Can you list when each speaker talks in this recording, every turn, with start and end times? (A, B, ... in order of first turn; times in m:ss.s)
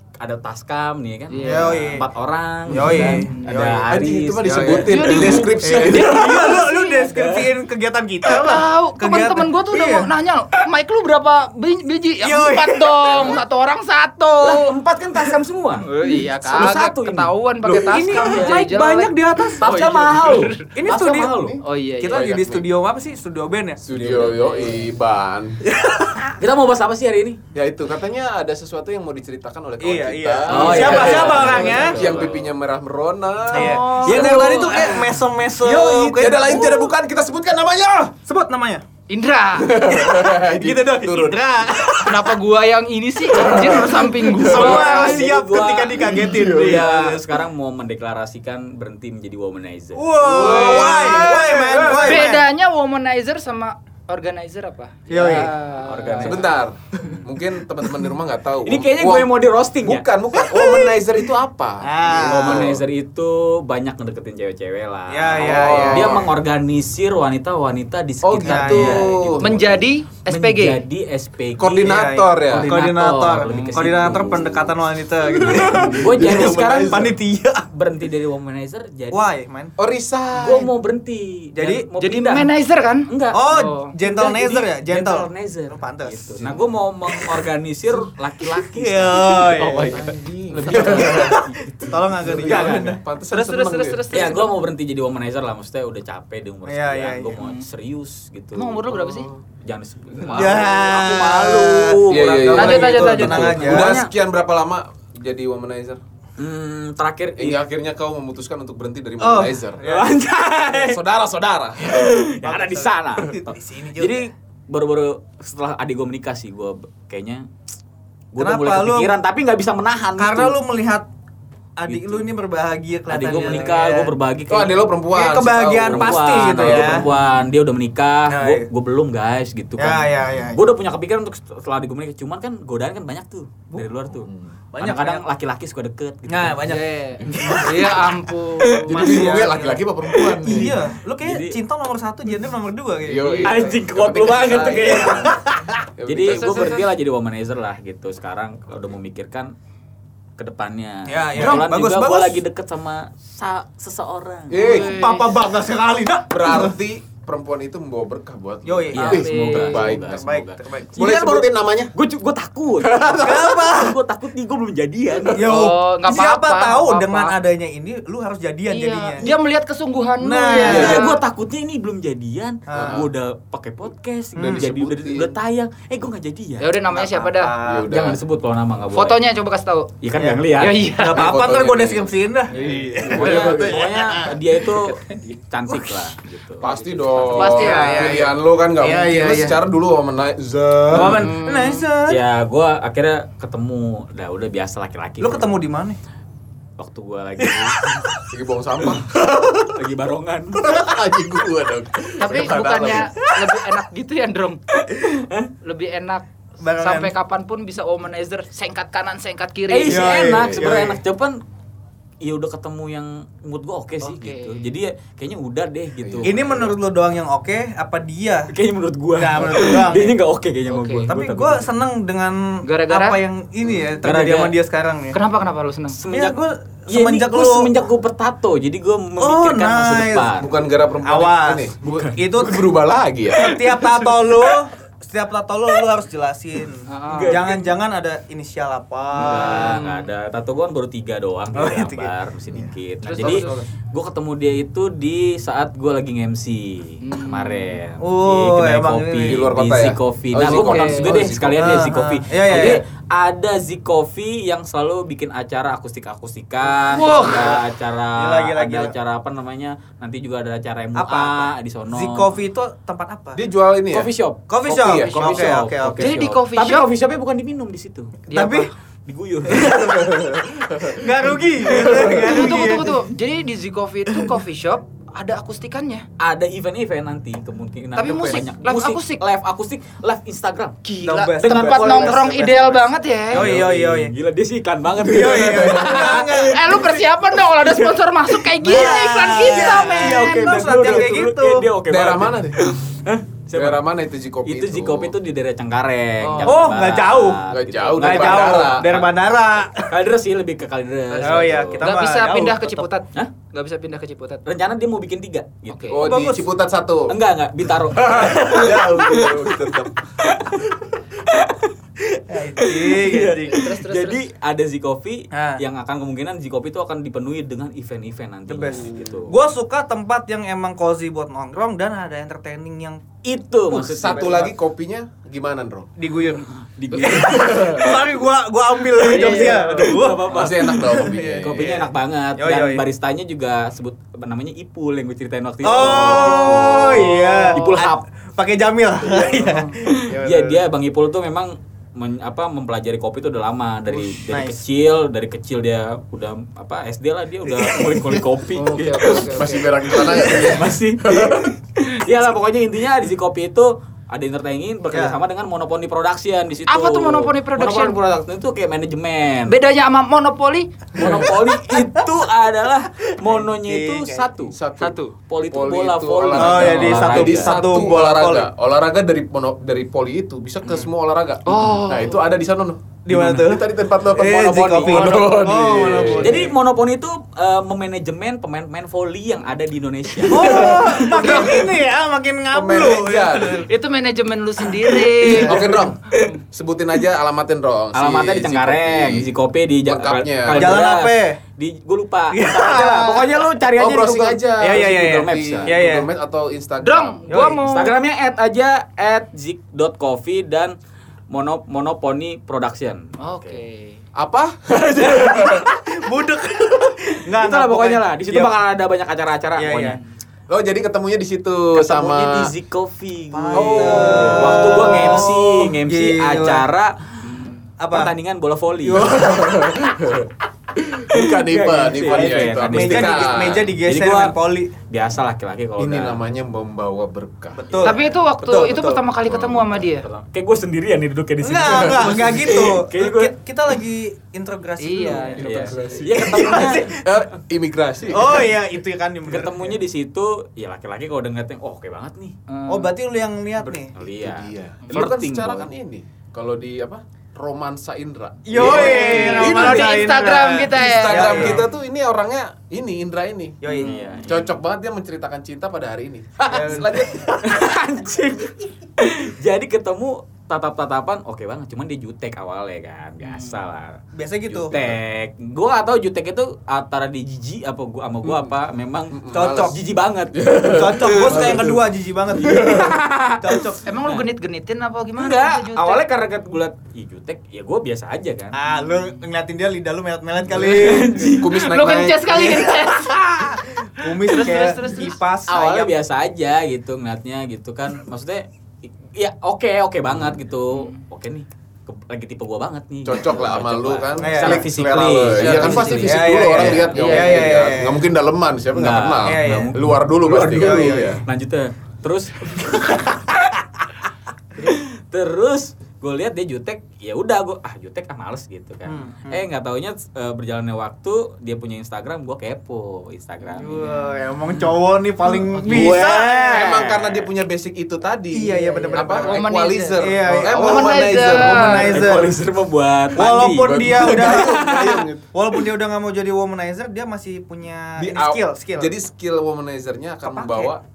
0:00.2-0:07.6 A
0:01.3-0:01.8 B
0:01.4-0:02.1 C
0:02.7-0:03.9 C
0:02.8-0:03.4 B
0:03.9-0:06.6 D
0:04.4-0:04.9 C
0:04.9-0:07.1 B
0:05.6-0:10.1 C
0:08.2-0:14.7 B
0:12.2-0:13.4 C
0:14.4-0:18.7 A
0:15.8-0:20.7 B
0:17.6-0:19.7 C
0:19.6-0:21.6 A
0:20.8-0:24.2 C
0:21.6-0:22.6 B
0:23.8-0:25.6 D
0:24.0-0:24.4 A
0:24.0-0:24.8 B
0:25.7-0:26.4 C
0:26.4-0:27.4 A
0:27.5-0:34.5 D
0:29.8-0:32.2 C
0:30.5-0:32.4 A
0:30.6-0:32.2 B
0:33.5-0:34.8 B
0:33.5-0:36.8 C
0:34.0-0:35.2 A
0:35.6-0:38.2 D
0:36.5-0:36.8 A
0:38.2-0:38.8 C
0:39.1-0:39.8 B
0:39.6-0:41.5 D
0:39.9-0:42.3 C
0:42.0-0:45.3 B
0:43.3-0:44.5 D
0:43.5-0:46.9 C
0:44.4-0:52.3 A
0:46.1-0:47.2 D
0:50.0-0:52.5 C
0:50.2-0:52.2 D
0:50.4-0:51.2 B
0:51.9-0:56.3 B
0:55.1-0:55.5 C
0:55.8-0:56.6 A
0:56.2-1:02.8 D
0:58.6-1:00.0 A
1:00.6-1:00.9 C
1:01.8-1:02.8 C
1:02.1-1:14.7 A
1:05.1-1:06.3 C
1:05.3-1:06.3 D
1:08.2-1:09.5 D
1:08.4-1:09.1 C
1:09.4-1:10.8 B
1:11.6-1:12.7 D
1:11.8-1:17.7 C
1:15.3-1:17.1 D
1:15.4-1:17.2 A
1:17.7-1:19.3 A
1:19.1-1:19.7 C
1:19.8-1:20.7 D
1:20.4-1:22.5 A
1:21.6-1:21.9 C
1:22.0-1:23.9 B
1:23.1-1:32.8 A
1:23.3-1:26.6 C
1:27.1-1:27.4 C
1:28.5-1:30.1 C
1:29.7-1:31.4 D
1:30.7-1:33.0 C
1:32.2-1:34.3 D
1:33.3-1:34.5 B
1:34.1-1:38.8 A
1:36.7-1:37.4 C
1:37.4-1:37.6 B
1:38.6-1:39.3 B
1:38.9-1:39.4 D
1:39.6-1:44.1 A
1:40.3-1:42.0 C
1:42.1-1:46.0 D
1:42.5-1:43.9 B
1:42.5-1:43.9 C
1:46.4-1:47.6 A
1:47.4-1:49.8 D
1:49.2-1:50.1 C
1:49.8-1:51.0 A
1:50.7-1:52.1 D
1:51.8-1:57.5 A
1:52.4-1:54.3 C
1:58.3-2:00.6 A
1:58.4-1:59.2 C
2:00.2-2:01.1 C
2:01.8-2:04.1 C
2:01.9-2:02.3 A
2:03.1-2:04.8 A
2:04.5-2:07.1 D
2:05.1-2:07.1 C
2:05.9-2:16.8 A
2:08.3-2:08.7 C
2:09.8-2:10.6 C
2:14.7-2:15.3 C
2:16.3-2:18.1 C
2:16.6-2:19.2 B
2:17.3-2:17.9 A
2:18.6-2:19.2 A
2:18.9-2:19.8 C
2:18.9-2:20.7 D
2:20.1-2:21.6 A
2:20.4-2:23.8 C
2:23.0-2:25.3 D
2:23.4-2:25.4 A
2:24.8-2:25.6 C
2:26.0-2:26.9 D
2:26.1-2:29.5 A
2:30.4-2:34.8 A
2:31.1-2:32.4 C
2:31.4-2:31.6 D
2:34.5-2:35.0 D
2:34.6-2:35.4 B
2:34.7-2:36.8 C
2:36.3-2:40.2 D
2:38.6-2:39.2 C
2:38.9-2:45.5 A
2:39.0-2:39.9 B
2:39.8-2:41.0 C
2:41.0-2:41.9 D
2:42.8-2:43.8 D
2:43.2-2:44.0 C
2:45.2-2:45.4 D
2:45.3-2:49.3 C
2:45.5-2:47.4 B
2:48.7-2:51.2 B
2:50.2-2:51.1 C
2:50.6-2:56.9 A
2:50.7-2:51.1 D
2:52.7-2:53.0 C
2:52.7-2:53.1 D
2:54.4-2:55.3 D
2:54.4-2:54.7 C
2:56.6-2:57.6 B
2:57.0-2:57.9 C
2:57.6-2:58.2 D
2:57.9-2:59.2 A
2:58.9-2:59.9 B
3:00.0-3:00.9 A
3:00.2-3:00.4 C
3:00.6-3:01.3 B
3:01.0-3:04.9 C
3:01.1-3:04.0 D
3:03.1-3:07.9 A
3:06.6-3:11.3 D
3:07.4-3:08.3 B
3:07.5-3:09.6 C
3:10.9-3:12.2 C
3:10.9-3:11.3 A
3:11.1-3:11.9 B
3:12.1-3:15.5 A
3:15.2-3:16.0 C
3:16.8-3:18.1 A
3:17.4-3:18.2 C
3:18.3-3:19.8 D
3:19.8-3:20.6 A
3:20.5-3:23.3 D
3:22.2-3:24.6 B
3:24.9-3:25.5 A
3:25.6-3:26.2 B
3:26.6-3:27.1 C
3:26.8-3:30.2 B
3:29.7-3:31.4 A
3:29.9-3:31.0 C
3:32.2-3:36.4 A
3:34.0-3:34.6 B
3:36.0-3:36.7 D
3:36.2-3:38.5 C
3:38.5-3:41.8 A
3:39.2-3:40.2 C
3:40.7-3:41.1 B
3:41.0-3:45.2 C
3:42.6-3:43.2 B
3:43.6-3:44.0 D
3:44.0-3:44.6 A
3:45.1-3:46.0 B
3:46.0-3:50.5 A
3:46.1-3:47.8 C
3:49.2-3:50.3 C
3:50.4-3:53.5 D
3:51.0-3:52.7 C
3:51.8-3:52.2 A
3:53.3-3:59.9 C
3:53.3-3:54.5 A
3:56.9-3:57.4 B
3:57.1-3:57.7 A
3:59.2-4:22.4 A
3:59.3-4:00.0 B
4:01.6-4:03.7 C
4:03.2-4:03.5 D
4:07.0-4:07.7 B
4:08.0-4:09.4 C
4:09.3-4:11.8 D
4:10.4-4:11.3 B
4:11.6-4:12.8 C
4:16.7-4:18.9 C
4:17.0-4:17.4 B
4:21.0-4:23.4 C
4:23.4-4:24.1 D
4:23.9-4:28.4 A
4:24.5-4:26.1 C
4:24.6-4:25.6 D
4:26.0-4:26.9 B
4:28.3-4:28.7 C
4:28.3-4:28.7 B
4:29.1-4:30.4 A
4:29.5-4:30.2 C
4:29.9-4:31.0 D
4:30.9-4:33.0 C
4:31.7-4:32.3 D
4:31.8-4:32.0 A
4:32.2-4:36.1 B
4:36.2-4:40.8 A
4:38.0-4:39.2 B
4:38.0-4:38.4 C
4:40.8-4:43.5 B
4:41.0-4:42.8 C
4:41.4-4:42.5 A
4:43.3-4:44.1 C
4:43.3-4:53.8 A
4:44.9-4:46.6 C
4:45.4-4:45.9 D
4:46.4-4:50.4 B
4:48.6-4:51.7 C
4:51.9-4:52.7 D
4:53.5-4:55.1 D
4:54.4-4:59.1 A
4:56.2-4:56.6 B
4:56.4-4:57.4 C
4:57.5-4:59.0 D
4:58.0-4:59.9 C
4:59.8-5:01.9 A
5:01.1-5:01.6 D
5:01.2-5:02.9 C
5:01.8-5:04.4 B
5:04.5-5:06.1 A
5:05.7-5:06.0 B
5:05.9-5:07.2 D
5:06.0-5:06.5 C
5:07.1-5:11.7 A
5:07.9-5:10.0 D
5:12.3-5:13.6 C
5:12.6-5:19.3 A
5:13.5-5:14.3 B
5:15.3-5:15.6 C
5:18.5-5:23.0 C
5:23.2-5:24.5 A
5:23.7-5:25.9 D
5:23.8-5:24.5 C
5:26.0-5:26.5 C
5:26.3-5:28.0 A
5:26.9-5:27.9 D
5:27.0-5:32.8 C
5:29.0-5:38.0 A
5:29.1-5:30.0 B
5:30.3-5:31.9 D
5:35.6-5:40.6 C
5:35.8-5:37.1 D
5:39.0-5:59.6 A
5:44.0-5:44.6 C
5:47.5-5:48.2 C
5:48.6-5:50.6 B
5:48.8-5:51.5 D
5:54.9-5:55.2 C
5:56.7-5:58.0 B
5:59.5-6:00.7 B
6:01.0-6:01.3 D
6:01.0-6:07.7 A
6:01.7-6:02.0 C
6:03.2-6:04.2 C
6:04.5-6:05.0 D
6:05.5-6:16.5 D
6:06.4-6:08.5 C
6:11.5-6:12.2 B
6:13.1-6:16.6 C
6:14.9-6:15.2 A
6:15.9-6:21.7 A
6:20.3-6:23.7 C
6:20.4-6:21.5 D
6:22.5-6:23.7 D
6:23.7-6:25.6 B
6:24.9-6:25.9 C
6:25.2-6:29.3 D
6:27.9-6:35.7 A
6:29.8-6:30.8 D
6:30.5-6:31.4 C
6:32.3-6:33.3 C
6:33.8-6:37.5 D
6:34.6-6:36.1 C
6:36.8-6:38.0 B
6:37.3-6:37.8 C
6:37.6-6:40.8 A
6:41.3-6:43.6 A
6:43.2-6:44.0 B
6:44.2-6:45.7 D
6:45.0-6:48.5 C
6:47.3-6:50.0 A
6:49.6-6:50.0 C
6:50.5-6:52.5 D
6:51.8-6:57.0 A
6:53.3-6:56.6 C
6:53.5-6:54.9 D
6:57.3-6:57.6 B
6:57.8-6:58.1 C
6:57.9-6:59.2 A
6:58.9-7:03.7 D
6:58.9-6:59.3 C
7:01.1-7:04.3 A
7:02.1-7:04.7 C
7:04.9-7:06.2 A
7:05.8-7:07.7 D
7:07.6-7:09.0 C
7:07.8-7:10.1 B
7:09.2-7:09.8 D
7:10.0-7:13.3 A
7:11.4-7:17.0 C
7:11.6-7:12.8 D
7:14.8-7:15.9 B
7:15.4-7:18.5 D
7:15.4-7:17.0 A
7:18.1-7:19.8 C
7:19.2-7:22.4 A
7:22.5-7:22.9 B
7:22.7-7:23.9 C
7:23.6-7:25.7 A
7:24.2-7:29.9 D
7:28.5-7:31.6 C
7:28.5-7:31.6 B
7:28.6-7:30.2 A
7:30.7-7:33.6 D
7:33.6-7:34.0 C
7:33.7-7:34.5 A
7:33.7-7:34.1 B
7:34.2-7:37.5 D
7:36.5-7:37.1 C
7:37.4-7:44.0 A
7:43.2-7:43.6 B
7:44.2-7:44.7 C
7:44.5-7:45.0 D
7:44.7-7:51.7 A
7:48.2-7:48.5 D
7:49.1-7:49.7 D
7:49.3-7:49.8 C
7:50.3-7:51.8 D
7:50.7-7:53.8 C
7:52.3-7:54.3 A
7:52.4-7:52.9 D
7:53.8-7:56.0 B
7:55.2-7:58.6 A
7:58.5-8:05.9 C
8:00.5-8:01.5 A
8:01.4-8:02.3 D
8:01.6-8:03.2 B
8:04.3-8:05.2 B
8:05.5-8:17.6 A
8:13.0-8:21.2 D
8:14.2-8:18.1 C
8:16.9-8:17.6 B
8:18.7-8:23.9 A
8:19.2-8:21.2 C
8:24.6-8:33.9 A
8:28.9-8:29.4 C
8:33.6-8:36.4 C
8:33.6-8:34.1 B
8:34.5-8:34.7 A
8:35.3-8:37.3 A
8:35.5-8:35.9 B
8:35.7-8:41.9 D
8:38.3-8:39.4 C
8:38.5-8:42.1 B
8:40.0-8:42.4 C
8:41.7-8:45.1 A
8:43.1-8:44.6 C
8:43.6-8:45.2 D
8:45.3-8:48.9 C
8:48.0-8:50.8 D
8:50.2-8:50.7 C